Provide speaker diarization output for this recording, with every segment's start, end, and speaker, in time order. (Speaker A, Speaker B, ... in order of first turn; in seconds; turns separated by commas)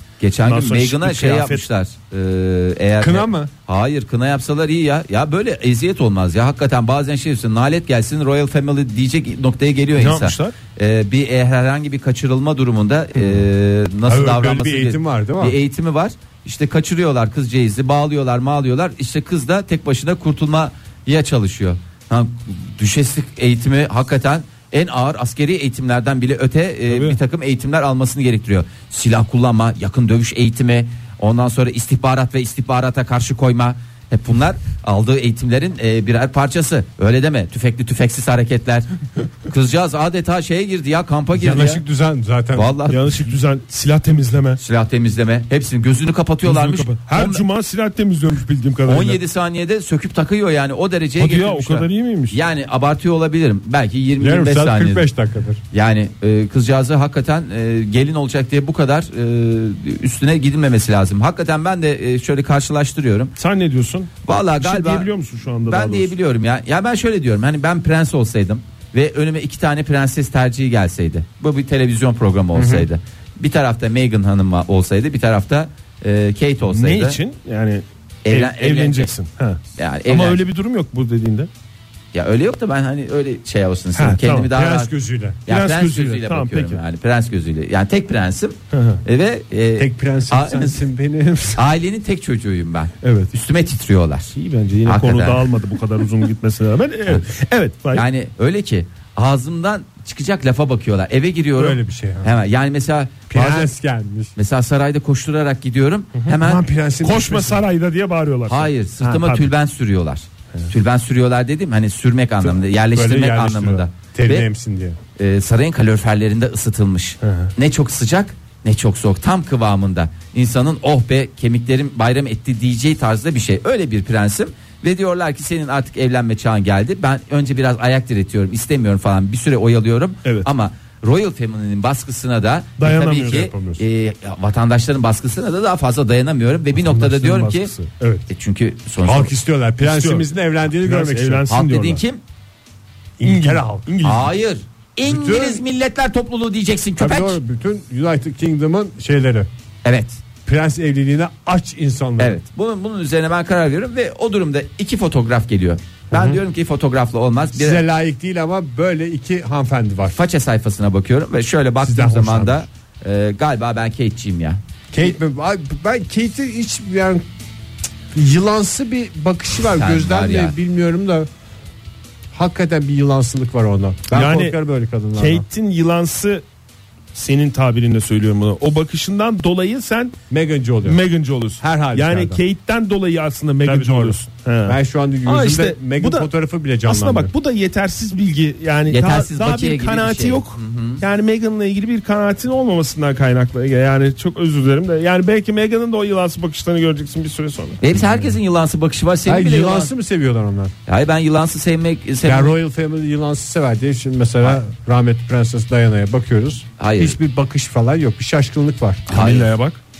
Speaker A: 0.2-38.9, Speaker B: 0.4-1.6, Speaker C: 3.0-3.5, Speaker B: 10.0-10.5, Speaker C: 14.0-15.6, Speaker B: 26.9-27.2, Speaker A: 39.5-41.8, Speaker C: 41.3-42.7, Speaker A: 42.5-43.0, Speaker B: 42.9-44.6, Speaker A: 44.6-47.4, Speaker B: 46.4-49.2, Speaker A: 48.9-55.0, Speaker B: 51.2-52.4, Speaker C: 54.2-55.6, Speaker A: 55.7-63.3, Speaker B: 63.4-66.1, Speaker A: 64.2-65.1, Speaker A: 65.7-77.2, Speaker B: 76.7-81.5, Speaker A: 78.2-79.1, Speaker A: 79.8-80.4, Speaker A: 82.1-84.9, Speaker B: 84.0-84.9, Speaker C: 84.5-85.4, Speaker B: 85.4-86.8, Speaker A: 85.5-90.8, Speaker B: 88.7-89.0, Speaker C: 89.8-91.6, Speaker A: 91.5-94.3, Speaker B: 93.0-93.3, Speaker B: 94.3-98.0, Speaker A: 94.8-95.4, Speaker A: 97.9-103.7, Speaker C: 101.5-102.4, Speaker C: 103.3-104.3, Speaker A: 104.3-106.6, Speaker C: 106.4-107.6, Speaker B: 107.0-109.5, Speaker A: 108.5-114.5, Speaker C: 112.4-115.0, Speaker A: 115.2-137.7, Speaker B: 117.2-117.5, Speaker B: 132.8-133.8, Speaker C: 136.8-137.9, Speaker B: 138.0-138.2, Speaker A: 138.3-139.3, Speaker C: 139.0-141.4, Speaker B: 139.8-142.0, Speaker A: 141.5-142.2, Speaker C: 143.2-143.9, Speaker B: 143.2-144.3, Speaker A: 144.0-147.4, Speaker C: 145.1-145.6, Speaker C: 147.0-149.5, Speaker A: 149.8-150.2, Speaker C: 150.4-152.4, Speaker A: 152.2-157.8, Speaker C: 156.1-156.4, Speaker C: 157.5-160.2, Speaker A: 160.1-165.1, Speaker C: 161.8-162.7, Speaker C: 164.9-167.2, Speaker C: 168.1-171.3, Speaker A: 169.7-170.5, Speaker C: 172.3-175.4, Speaker B: 174.1-174.6, Speaker B: 175.2-176.4, Speaker B: 177.1-180.1, Speaker C: 180.3-181.0, Speaker B: 180.8-186.3, Speaker C: 181.6-182.4, Speaker C: 183.6-187.3, Speaker B: 186.8-198.3, Speaker A: 188.9-191.0, Speaker A: 197.8-199.9, Speaker C: 199.2-200.7, Speaker A: 200.8-202.5, Speaker C: 202.2-209.1, Speaker A: 206.8-207.2, Speaker A: 209.1-209.5, Speaker B: 209.1-209.8